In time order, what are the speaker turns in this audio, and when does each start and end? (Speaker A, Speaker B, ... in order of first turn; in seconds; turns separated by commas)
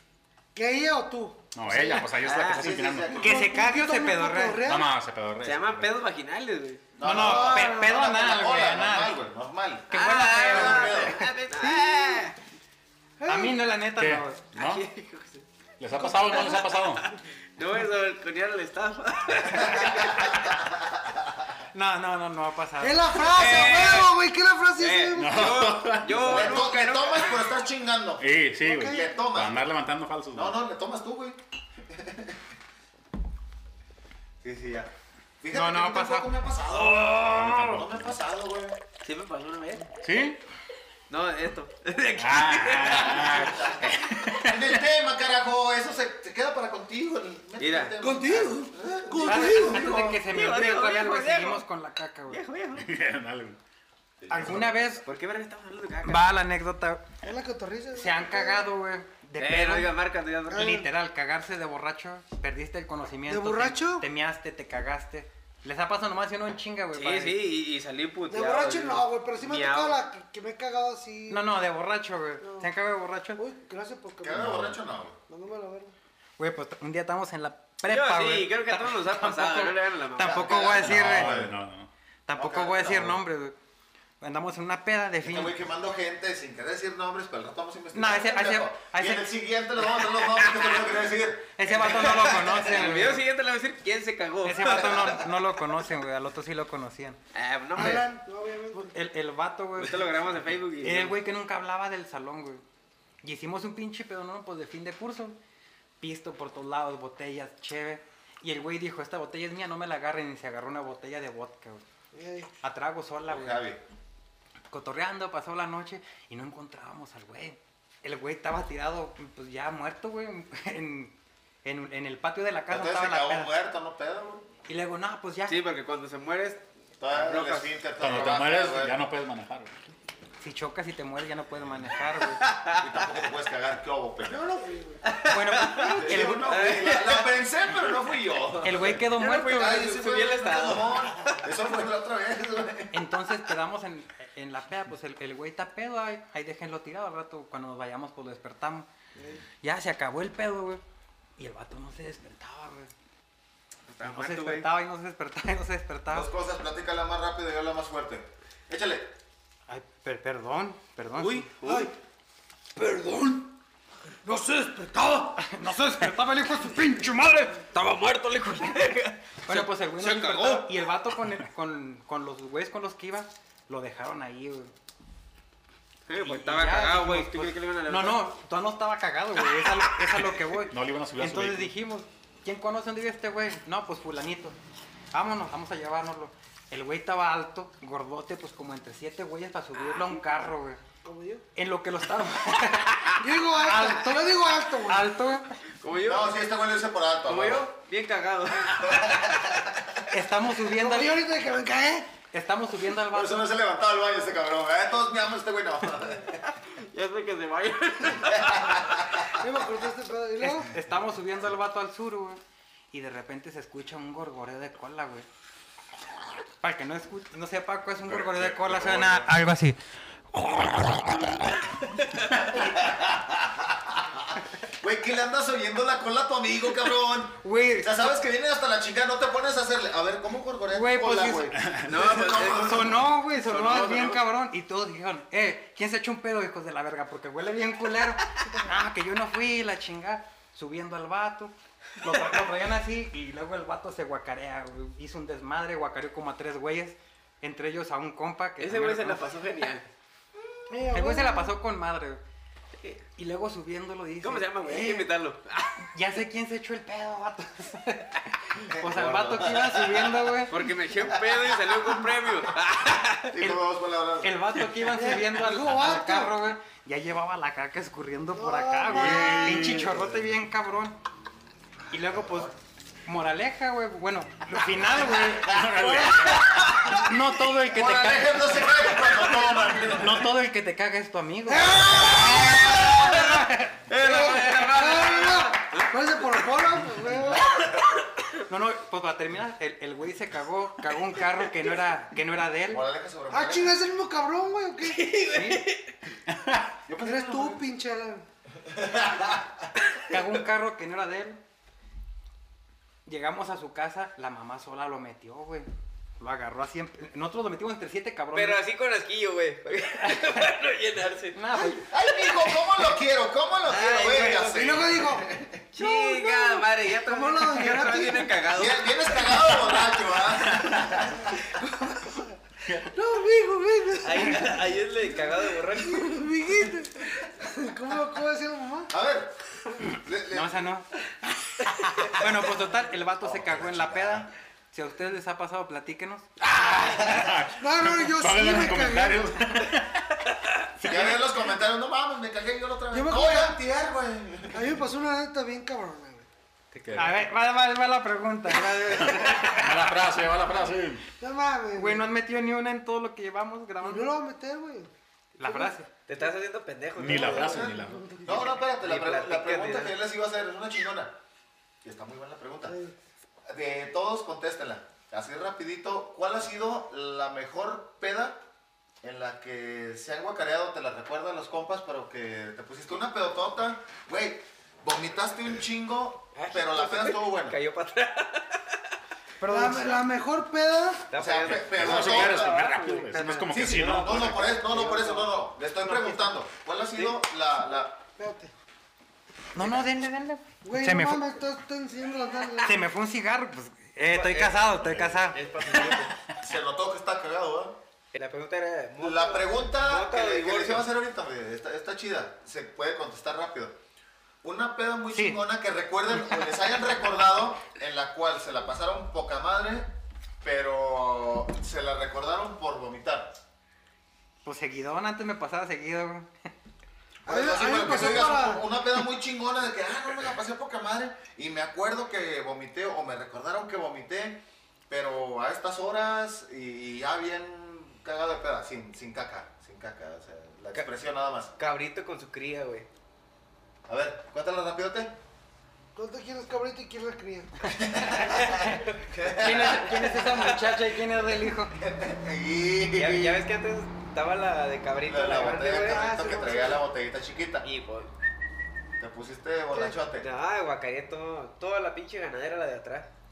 Speaker A: 0.5-2.0, Speaker B: 1.5-3.1, Speaker C: 2.2-2.7, Speaker D: 2.5-3.5, Speaker A: 3.1-4.9, Speaker E: 3.1-4.8, Speaker B: 4.6-5.9, Speaker C: 5.4-6.9, Speaker D: 7.0-11.2, Speaker E: 7.0-9.2, Speaker A: 7.1-8.0, Speaker E: 9.9-11.3, Speaker C: 9.9-12.3, Speaker A: 11.6-12.2, Speaker A: 13.2-13.6, Speaker E: 13.3-14.4, Speaker B: 14.0-14.8, Speaker C: 14.5-15.4, Speaker B: 15.8-17.1, Speaker A: 16.0-16.6, Speaker C: 16.3-20.4, Speaker D: 19.6-21.3, Speaker E: 21.7-23.2, Speaker A: 22.8-25.8, Speaker C: 23.3-24.1, Speaker C: 24.8-27.5, Speaker B: 25.1-26.6, Speaker D: 26.2-28.3, Speaker B: 28.2-30.6, Speaker A: 28.6-29.1, Speaker D: 28.8-29.7, Speaker D: 30.3-32.5, Speaker D: 34.4-38.8, Speaker E: 35.5-37.8, Speaker B: 37.2-38.1, Speaker C: 39.0-39.9, Speaker B: 40.0-40.4, Speaker C: 41.1-43.9, Speaker B: 42.2-44.8, Speaker D: 42.9-50.2, Speaker C: 47.6-48.0, Speaker A: 48.0-49.9, Speaker E: 49.2-52.4, Speaker C: 49.5-51.6, Speaker C: 52.3-52.9, Speaker B: 52.7-53.6, Speaker D: 54.2-54.9, Speaker E: 54.3-55.0, Speaker C: 54.4-56.3, Speaker E: 56.0-57.1, Speaker A: 57.2-58.7, Speaker E: 57.9-59.9, Speaker C: 59.4-60.8, Speaker A: 60.5-60.9, Speaker E: 60.5-67.4, Speaker A: 63.3-64.0, Speaker C: 66.9-70.0, Speaker A: 68.3-71.5, Speaker E: 71.3-73.4, Speaker A: 72.4-72.7, Speaker A: 73.4-74.6, Speaker D: 74.2-75.2, Speaker A: 75.3-75.9, Speaker E: 76.4-81.3, Speaker C: 77.8-80.6, Speaker D: 80.2-81.5, Speaker B: 80.8-81.9, Speaker E: 82.3-83.5, Speaker D: 82.3-83.2, Speaker E: 84.2-85.5, Speaker D: 85.2-91.6, Speaker E: 87.9-89.3, Speaker E: 91.6-93.2, Speaker C: 91.7-95.3, Speaker E: 94.4-97.2, Speaker C: 97.3-98.1, Speaker A: 97.7-98.9, Speaker E: 98.7-100.1, Speaker C: 99.8-101.2, Speaker E: 100.8-102.6, Speaker E: 103.2-105.4, Speaker E: 106.0-111.8, Speaker A: 112.1-112.5, Speaker E: 112.6-113.6, Speaker D: 113.3-113.8, Speaker E: 114.7-121.1, Speaker E: 121.6-123.5, Speaker D: 122.7-124.5, Speaker E: 124.7-125.6, Speaker C: 125.5-127.7, Speaker D: 127.0-129.1, Speaker B: 128.0-129.7, Speaker E: 130.4-132.4, Speaker C: 132.4-132.8, Speaker D: 132.7-134.5, Speaker A: 134.3-135.0, Speaker C: 135.0-137.3, Speaker E: 135.2-136.8, Speaker D: 136.0-143.1, Speaker E: 138.6-139.8, Speaker C: 138.7-141.5, Speaker E: 142.9-148.9, Speaker E: 149.6-150.8, Speaker E: 151.4-152.9, Speaker C: 153.9-154.7, Speaker E: 154.0-156.3, Speaker D: 156.1-159.1, Speaker E: 159.7-161.5, Speaker C: 161.2-161.9, Speaker A: 161.6-161.9, Speaker C: 162.8-163.5, Speaker A: 164.2-165.4, Speaker E: 165.3-167.7, Speaker C: 167.6-170.7, Speaker E: 169.5-174.7, Speaker C: 176.1-178.3, Speaker E: 176.1-184.6, Speaker B: 180.5-181.7, Speaker E: 185.1-190.8, Speaker C: 189.8-190.2, Speaker A: 191.0-191.4, Speaker E: 191.5-195.5, Speaker C: 192.9-193.1, Speaker A: 193.2-195.1, Speaker C: 195.8-196.4, Speaker D: 196.0-197.7, Speaker C: 197.3-199.2, Speaker D: 198.8-199.9, Speaker E: 200.1-201.2, Speaker A: 200.7-202.1, Speaker E: 202.3-203.5, Speaker D: 203.1-206.4, Speaker C: 206.7-209.3, Speaker D: 208.4-209.2, Speaker A: 209.4-210.7, Speaker E: 210.4-212.4, Speaker E: 212.9-215.2, Speaker E: 216.6-219.8, Speaker B: 218.3-219.2, Speaker D: 218.7-219.2, Speaker E: 220.3-221.5, Speaker C: 221.2-222.4, Speaker D: 222.6-233.1, Speaker E: 227.4-228.0, Speaker E: 230.7-231.5, Speaker B: 231.6-231.9, Speaker C: 231.9-234.3, Speaker E: 232.3-249.7, Speaker C: 248.6-249.8, Speaker A: 250.7-251.5, Speaker E: 250.9-252.2, Speaker E: 253.2-254.8, Speaker C: 254.2-255.8, Speaker A: 254.7-255.0, Speaker E: 255.8-260.6, Speaker D: 258.6-260.3, Speaker C: 260.5-263.4, Speaker D: 263.3-264.4, Speaker E: 264.2-271.0, Speaker A: 264.9-266.4, Speaker A: 268.3-269.7, Speaker B: 268.9-270.1, Speaker E: 271.9-272.5, Speaker D: 272.0-272.5, Speaker E: 273.1-276.1, Speaker B: 275.4-276.6, Speaker A: 275.8-276.4, Speaker D: 276.4-277.1, Speaker E: 276.8-279.1, Speaker D: 277.6-280.3, Speaker E: 279.8-283.7, Speaker A: 281.5-287.7, Speaker C: 281.9-286.5, Speaker D: 287.5-287.9, Speaker E: 288.5-292.8, Speaker D: 292.7-293.8, Speaker A: 293.3-295.1, Speaker C: 294.8-295.9, Speaker E: 295.3-295.6, Speaker B: 296.3-296.6, Speaker D: 296.9-297.6, Speaker A: 297.0-298.2, Speaker D: 298.6-299.7, Speaker E: 300.1-301.4, Speaker E: 303.1-305.7, Speaker E: 306.2-308.6, Speaker C: 308.3-311.4, Speaker E: 310.0-310.4, Speaker E: 311.3-311.9, Speaker D: 311.6-315.6, Speaker C: 312.3-312.5, Speaker C: 313.6-314.8, Speaker A: 314.4-318.4, Speaker C: 315.7-319.5, Speaker D: 318.5-321.4, Speaker A: 321.6-324.7, Speaker C: 324.0-326.3, Speaker A: 325.8-328.9, Speaker D: 328.9-330.7, Speaker E: 330.3-330.9, Speaker E: 331.9-336.3, Speaker D: 333.2-334.3, Speaker B: 336.4-340.2, Speaker D: 336.8-337.3, Speaker A: 337.6-339.6, Speaker E: 340.8-341.2, Speaker D: 340.8-344.8, Speaker A: 342.9-343.6, Speaker A: 344.5-346.3, Speaker C: 346.7-347.1, Speaker B: 346.8-347.2, Speaker E: 346.9-349.8, Speaker B: 349.1-351.1, Speaker A: 351.2-352.0, Speaker E: 351.7-354.1, Speaker A: 353.8-354.9, Speaker E: 355.4-355.9, Speaker A: 355.4-355.7, Speaker C: 356.1-357.7, Speaker B: 357.0-358.2, Speaker A: 357.0-358.6, Speaker D: 358.2-361.1, Speaker C: 358.8-360.0, Speaker D: 361.8-362.8, Speaker A: 362.6-362.9, Speaker D: 363.5-368.4, Speaker D: 369.0-377.6, Speaker C: 376.3-378.8, Speaker E: 379.4-380.0, Speaker A: 379.4-381.1, Speaker C: 381.1-385.3, Speaker D: 381.1-382.6, Speaker B: 381.6-384.5, Speaker D: 383.5-388.0, Speaker C: 385.9-386.2, Speaker A: 388.2-388.5, Speaker E: 389.5-391.2, Speaker D: 389.6-389.8, Speaker A: 390.6-392.8, Speaker E: 392.6-395.5, Speaker C: 394.1-396.1, Speaker B: 394.8-395.3, Speaker D: 396.4-397.8, Speaker C: 398.1-400.9, Speaker D: 399.0-403.8, Speaker D: 404.4-409.9, Speaker E: 405.1-405.4, Speaker D: 410.4-413.4, Speaker E: 414.4-416.3, Speaker A: 417.2-418.6, Speaker D: 417.2-431.5, Speaker C: 431.6-432.9, Speaker D: 433.9-435.2, Speaker A: 435.9-437.8, Speaker D: 437.7-440.1, Speaker E: 438.3-441.7, Speaker C: 438.5-438.9, Speaker C: 439.5-440.8, Speaker D: 441.7-443.4, Speaker C: 442.9-446.6, Speaker D: 445.1-447.6, Speaker A: 445.4-446.8, Speaker C: 447.6-448.1, Speaker D: 449.0-450.3, Speaker C: 450.2-453.1